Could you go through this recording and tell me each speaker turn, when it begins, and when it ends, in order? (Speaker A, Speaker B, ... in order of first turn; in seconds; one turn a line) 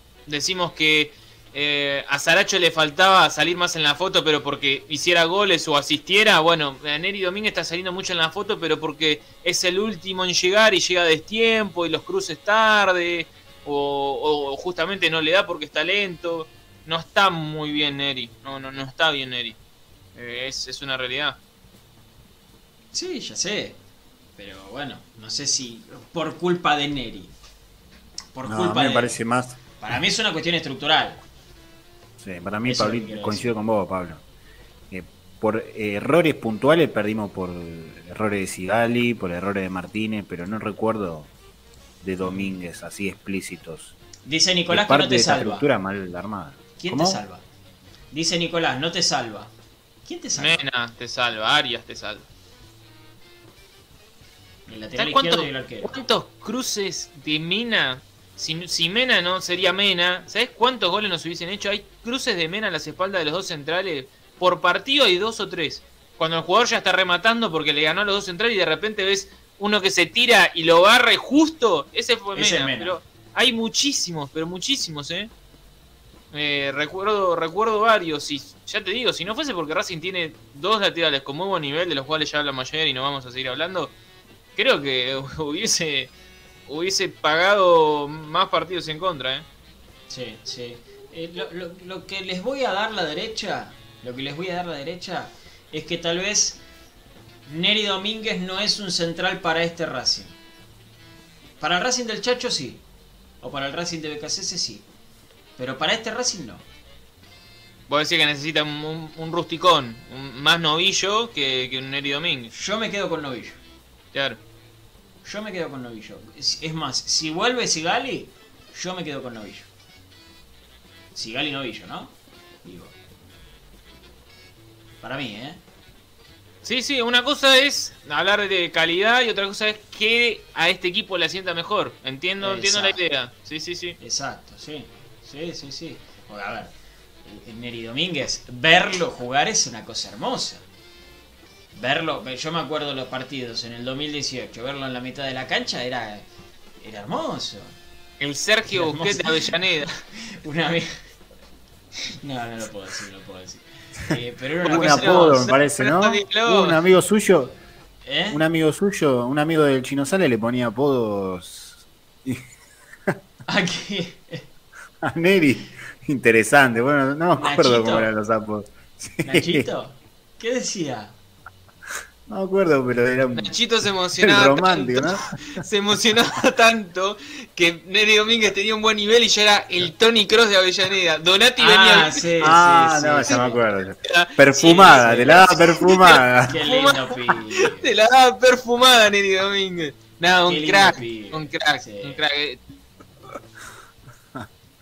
Speaker A: 0.3-19.6
Speaker A: 20.1-21.4
Speaker B: 22.9-23.8
Speaker B: 24.4-27.3
Speaker B: 28.3-29.2
Speaker C: 28.4-29.6
Speaker B: 29.8-31.2
Speaker C: 32.2-34.2
Speaker B: 32.6-33.5
Speaker C: 34.9-41.3
Speaker C: 42.0-43.9
Speaker B: 42.2-42.5
Speaker B: 44.2-45.6
Speaker C: 44.7-47.2
Speaker B: 46.8-47.4
Speaker B: 48.1-49.5
Speaker B: 50.0-50.6
Speaker A: 50.4-52.3
Speaker B: 54.7-56.0
Speaker A: 55.0-75.3
Speaker B: 72.3-73.0
Speaker A: 76.3-83.9
Speaker A: 84.5-86.1
Speaker A: 86.7-89.4
Speaker B: 90.1-96.6
Speaker B: 97.5-100.4
Speaker B: 101.6-102.8
Speaker B: 103.4-104.8
Speaker B: 105.6-106.6
Speaker A: 107.9-112.5
Speaker B: 112.5-113.6
Speaker A: 114.1-114.4
Speaker B: 115.2-119.7
Speaker B: 121.1-122.9
Speaker B: 125.0-125.6
Speaker A: 126.6-134.0
Speaker B: 132.4-133.0
Speaker B: 134.0-136.7
Speaker B: 137.2-140.6
Speaker B: 141.7-146.2
Speaker B: 146.8-147.8
Speaker A: 148.2-149.9
Speaker B: 148.7-151.0
Speaker B: 152.1-155.5
Speaker A: 154.6-156.8
Speaker C: 154.6-157.6
Speaker B: 158.0-158.4
Speaker C: 158.3-162.4
Speaker B: 163.5-164.4
Speaker C: 165.0-169.7
Speaker B: 167.4-168.1
Speaker B: 169.2-171.2
Speaker C: 172.3-173.6
Speaker A: 173.3-182.3
Speaker C: 174.2-175.3
Speaker B: 181.6-183.6
Speaker C: 182.4-186.6
Speaker A: 184.0-192.6
Speaker B: 184.8-185.6
Speaker B: 186.4-187.9
Speaker B: 190.4-192.2